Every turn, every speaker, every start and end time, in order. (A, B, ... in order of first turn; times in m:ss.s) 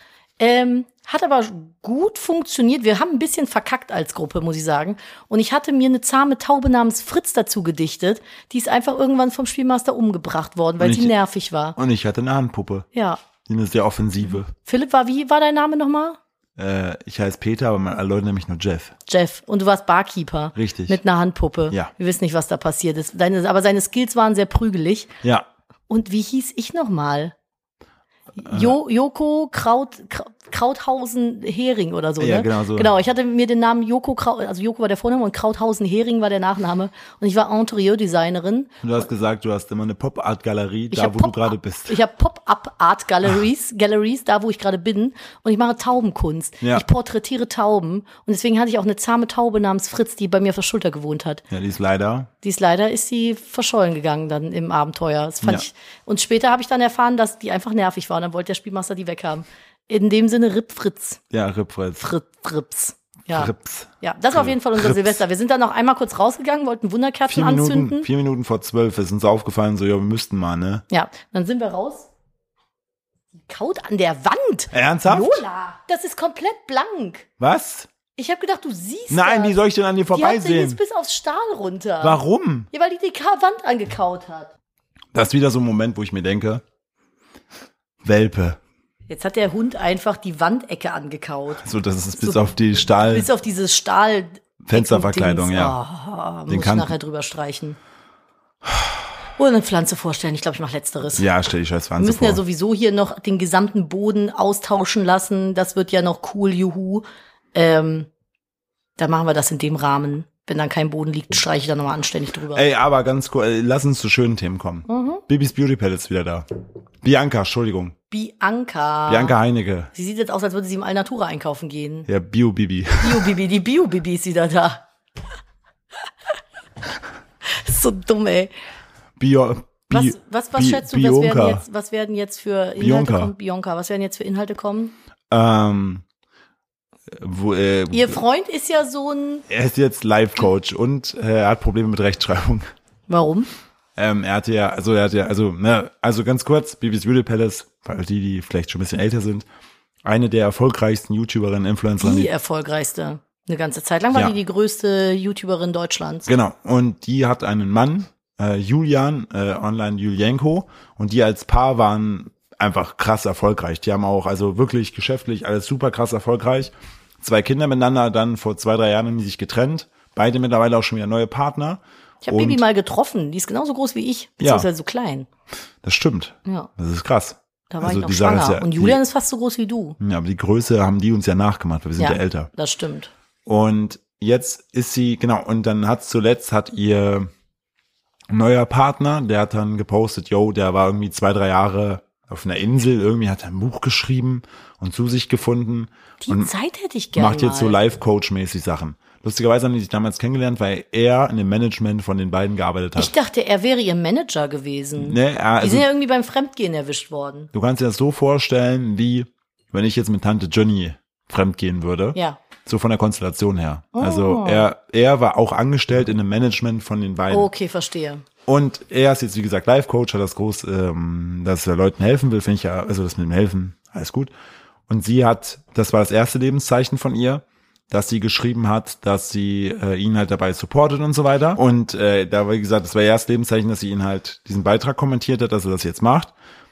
0:00.4-0:11.8 A
0:10.8-0:11.1 B
0:11.8-0:12.9 B
0:12.9-0:13.2 A
0:13.4-0:14.5 B
0:14.5-0:16.2 A
0:16.6-0:18.9 B
0:19.1-0:25.1 A
0:20.5-0:21.0 B
0:25.9-0:27.3 A
0:28.4-0:38.8 A
0:28.4-0:28.7 B
0:32.2-0:32.9 B
0:38.8-0:42.0 B
0:40.9-0:51.4 A
0:51.5-0:52.3 B
0:52.4-1:01.2 A
1:01.3-1:02.1 B
1:02.0-1:08.1 A
1:03.3-1:05.2 B
1:07.3-1:10.8 B
1:10.9-1:12.1 A
1:13.3-1:17.3 A
1:14.7-1:15.4 B
1:17.4-1:17.9 B
1:18.2-1:19.6 A
1:19.1-1:20.8 B
1:20.1-1:22.2 A
1:22.0-1:22.7 B
1:22.7-1:24.5 A
1:25.1-1:26.6 B
1:28.0-1:28.6 B
1:29.1-1:31.6 A
1:31.6-1:33.3 B
1:32.2-1:32.5 A
1:33.0-1:37.8 A
1:34.6-1:35.7 B
1:36.5-1:36.9 B
1:39.4-1:41.3 A
1:41.2-1:42.4 B
1:42.0-1:48.1 A
1:49.0-1:52.6 A
1:52.5-1:56.4 B
1:54.9-1:55.2 A
1:57.0-1:57.9 B
1:58.1-1:59.4 A
1:59.1-1:59.9 B
1:59.9-2:02.1 A
2:02.1-2:03.3 B
2:03.0-2:04.8 A
2:07.4-2:08.5 A
2:09.2-2:11.6 B
2:09.9-2:14.9 A
2:12.8-2:13.3 B
2:15.3-2:16.0 B
2:17.1-2:18.2 B
2:17.9-2:19.4 A
2:19.5-2:22.7 B
2:23.1-2:23.5 A
2:24.0-2:29.4 B
2:30.0-2:32.3 B
2:32.0-2:36.3 A
2:36.2-2:52.6 B
2:52.2-2:55.3 A
2:54.4-2:54.7 B
2:55.8-2:59.0 B
2:57.7-3:00.0 A
3:00.0-3:02.5 B
3:02.0-3:03.1 A
3:03.4-3:07.3 B
3:08.3-3:16.5 B
3:16.2-3:17.8 A
3:17.1-3:23.1 B
3:23.0-3:27.5 A
3:25.0-3:25.9 B
3:27.5-3:37.5 B
3:32.1-3:32.4 A
3:33.9-3:34.6 A
3:37.3-3:38.2 A
3:38.4-3:44.3 B
3:44.9-3:56.3 B